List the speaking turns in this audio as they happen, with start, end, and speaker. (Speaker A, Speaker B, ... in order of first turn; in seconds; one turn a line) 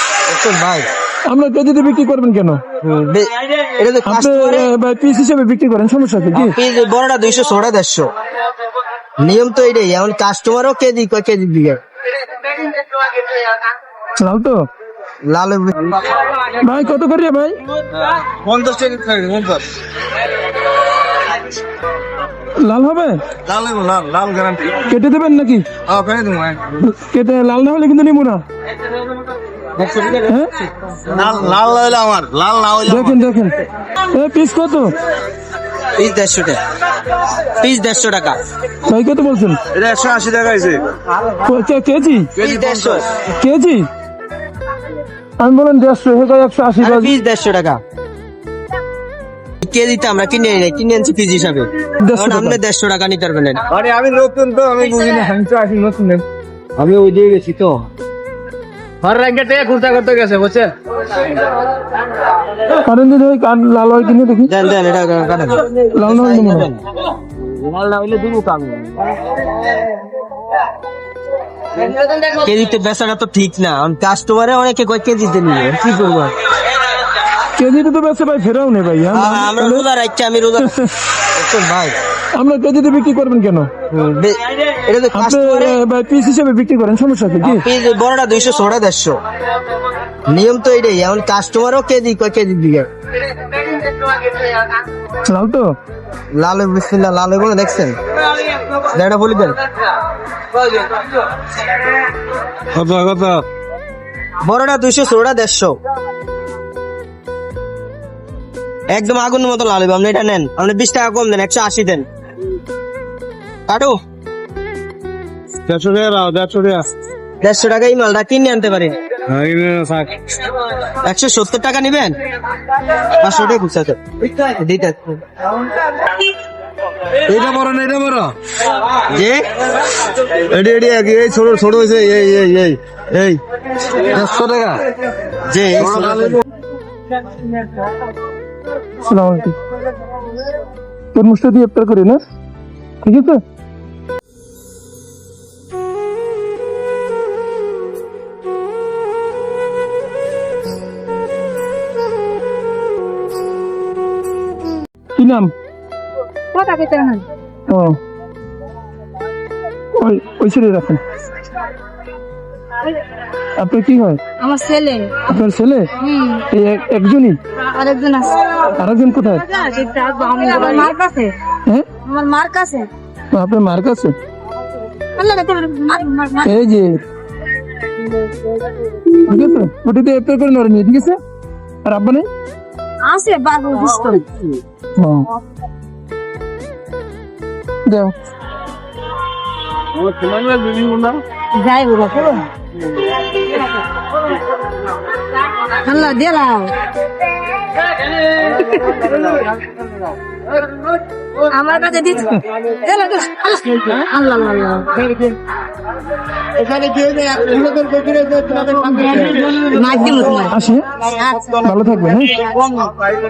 Speaker A: 0.3-0.9
Speaker B: 1.3-2.6
Speaker A: 2.8-4.7
Speaker B: 4.0-6.5
Speaker A: 6.3-8.1
Speaker A: 9.2-11.8
Speaker B: 14.2-14.7
Speaker A: 15.3-16.0
Speaker B: 16.6-17.6
Speaker C: 18.2-19.6
Speaker B: 22.6-23.2
Speaker C: 23.5-24.7
Speaker B: 24.8-25.7
Speaker C: 25.9-26.6
Speaker B: 26.8-28.4
Speaker A: 29.8-30.4
Speaker A: 30.9-31.5
Speaker C: 31.1-33.2
Speaker B: 32.9-34.9
Speaker A: 36.0-36.6
Speaker A: 37.5-38.4
Speaker B: 38.9-39.6
Speaker C: 39.7-40.9
Speaker B: 41.4-42.3
Speaker C: 42.4-43.0
Speaker A: 42.4-43.1
Speaker B: 43.2-43.9
Speaker B: 45.4-47.1
Speaker A: 46.8-47.8
Speaker A: 49.6-53.6
Speaker B: 52.0-52.6
Speaker C: 53.7-56.2
Speaker A: 56.8-57.8
Speaker A: 59.1-60.6
Speaker B: 62.8-64.5
Speaker A: 64.5-66.8
Speaker B: 66.0-66.7
Speaker A: 67.4-69.0
Speaker A: 72.3-76.4
Speaker B: 77.6-79.8
Speaker A: 79.1-80.7
Speaker B: 80.6-80.9
Speaker A: 81.3-82.0
Speaker B: 82.3-83.7
Speaker A: 83.9-85.8
Speaker B: 85.1-87.6
Speaker A: 87.4-89.2
Speaker A: 90.3-92.9
Speaker B: 95.3-95.7
Speaker A: 96.4-98.0
Speaker A: 98.7-99.6
Speaker C: 102.8-103.4
Speaker A: 104.4-105.8
Speaker A: 108.9-112.1
Speaker A: 113.7-113.9
Speaker C: 115.7-116.8
Speaker A: 117.4-119.0
Speaker C: 119.3-120.1
Speaker A: 121.0-122.2
Speaker A: 123.1-125.2
Speaker C: 127.3-128.3
Speaker A: 129.1-129.4
Speaker C: 130.5-133.4
Speaker C: 134.1-134.8
Speaker A: 134.2-134.7
Speaker A: 135.5-136.4
Speaker C: 135.8-136.4
Speaker B: 139.1-139.6
Speaker B: 141.1-142.2
Speaker B: 143.0-143.4
Speaker B: 155.2-155.5
Speaker D: 156.5-157.3
Speaker B: 157.7-158.0
Speaker B: 159.9-161.0
Speaker B: 163.6-164.2
Speaker D: 164.4-165.3
Speaker B: 165.3-165.9
Speaker D: 166.0-166.4
Speaker B: 166.5-167.4
Speaker D: 167.7-168.5
Speaker B: 168.7-169.5
Speaker D: 169.5-171.4
Speaker D: 172.1-172.9
Speaker B: 173.3-174.2
Speaker D: 175.2-176.5
Speaker B: 176.4-177.0
Speaker B: 179.2-181.2
Speaker B: 181.8-182.3
Speaker D: 183.0-184.5
Speaker B: 185.0-185.3
Speaker B: 187.9-188.1
Speaker C: 190.2-190.7
Speaker D: 191.5-192.5
Speaker D: 195.7-196.8
Speaker D: 198.4-199.2
Speaker D: 201.5-205.4
Speaker D: 206.6-211.7
Speaker B: 210.5-210.9
Speaker B: 211.6-212.4
Speaker D: 212.3-213.0